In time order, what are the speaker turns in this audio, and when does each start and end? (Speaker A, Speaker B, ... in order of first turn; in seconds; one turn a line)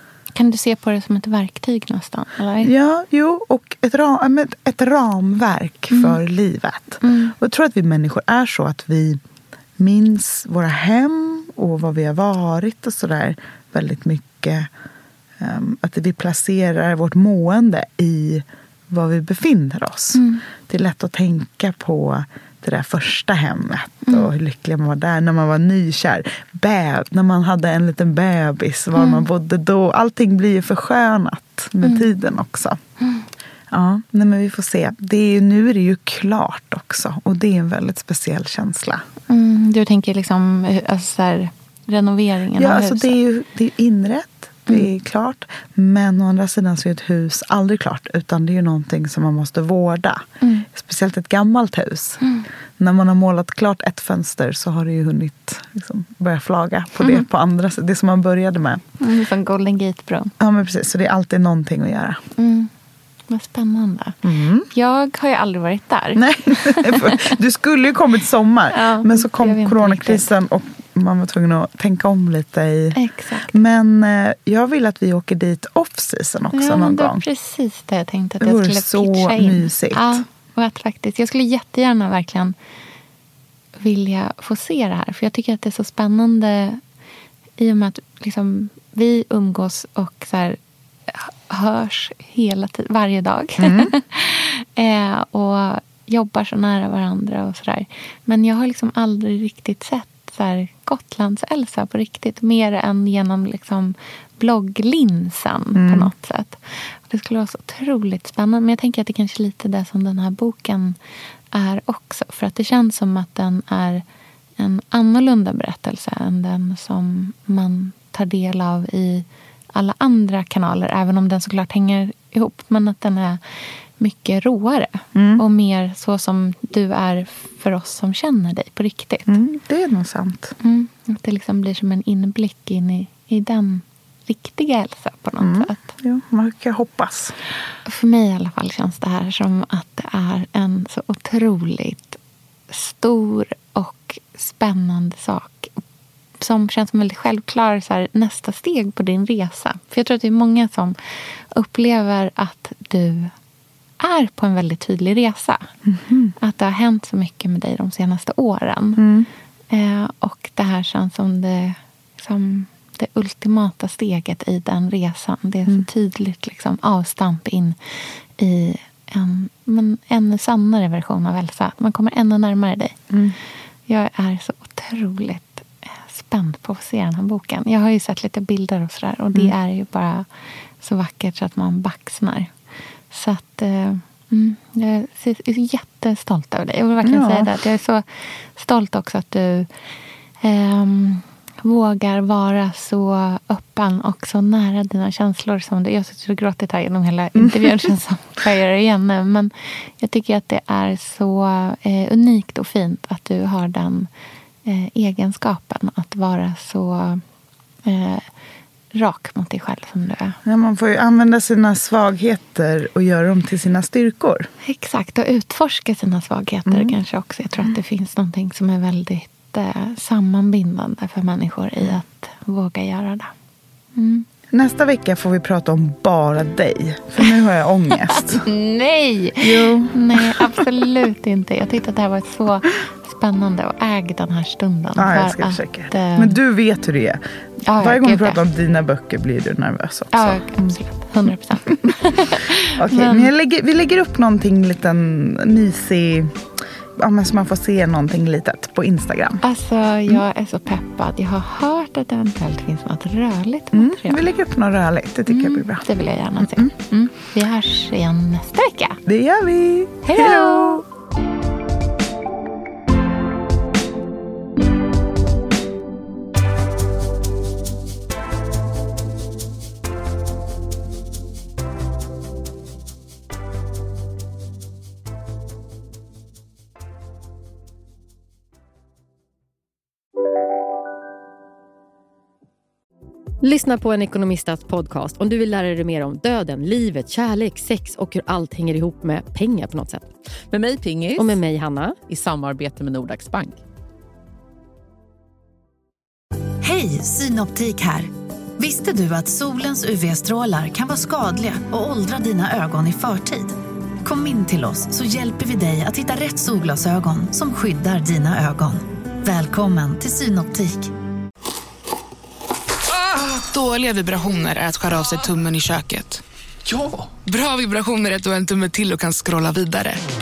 Speaker A: 0.3-2.7
Speaker B: 2.6-9.2
Speaker A: 5.9-6.2
Speaker A: 7.0-7.3
Speaker B: 9.8-14.7
Speaker B: 15.4-32.8
Speaker A: 20.1-20.4
Speaker A: 24.0-24.3
Speaker A: 28.9-29.2
Speaker A: 31.8-32.1
Speaker B: 33.7-39.0
Speaker A: 39.3-43.2
Speaker B: 42.6-52.2
Speaker A: 50.4-50.7
Speaker A: 52.2-52.5
Speaker B: 52.8-58.8
Speaker A: 59.0-60.3
Speaker B: 60.4-62.2
Speaker A: 62.4-62.7
Speaker A: 63.3-64.2
Speaker B: 64.2-64.7
Speaker A: 64.7-67.3
Speaker B: 66.1-73.0
Speaker A: 68.7-70.3
Speaker A: 72.9-73.5
Speaker B: 73.5-77.2
Speaker A: 76.5-82.5
Speaker B: 78.4-80.2
Speaker A: 83.8-86.8
Speaker A: 87.6-111.0
Speaker B: 93.6-93.9
Speaker B: 105.7-106.1
Speaker A: 111.5-114.0
Speaker A: 114.6-123.4
Speaker A: 124.0-129.4
Speaker B: 125.1-125.4
Speaker B: 129.3-130.5
Speaker A: 130.6-135.8
Speaker B: 135.4-137.3
Speaker A: 137.8-142.2
Speaker A: 142.7-145.7
Speaker A: 146.4-151.0
Speaker A: 151.5-153.3
Speaker A: 154.0-155.7
Speaker B: 155.9-156.3
Speaker A: 156.4-159.0
Speaker B: 159.0-159.3
Speaker A: 159.7-172.9
Speaker B: 173.1-173.3
Speaker A: 173.9-180.3
Speaker A: 180.8-182.5
Speaker A: 183.1-189.7
Speaker B: 187.0-187.5
Speaker A: 190.4-204.1
Speaker B: 197.3-197.9
Speaker A: 204.7-207.2
Speaker A: 207.8-208.3
Speaker A: 208.9-210.4
Speaker B: 210.4-214.5
Speaker A: 214.6-223.3
Speaker B: 216.7-216.9
Speaker A: 223.9-224.2
Speaker B: 224.5-228.4
Speaker A: 228.1-236.4
Speaker B: 229.4-230.7
Speaker B: 235.0-237.2
Speaker A: 237.6-238.4
Speaker B: 237.8-240.8
Speaker A: 240.1-243.3
Speaker B: 242.7-246.4
Speaker B: 247.0-249.4
Speaker A: 249.4-254.2
Speaker B: 253.7-255.8
Speaker A: 255.3-259.0
Speaker B: 256.4-256.7
Speaker B: 259.1-260.8
Speaker A: 260.0-260.8
Speaker C: 283.4-290.1
Speaker D: 290.5-291.4
Speaker C: 291.1-292.0
Speaker D: 292.1-293.6
Speaker E: 296.6-310.9
Speaker F: 312.9-320.0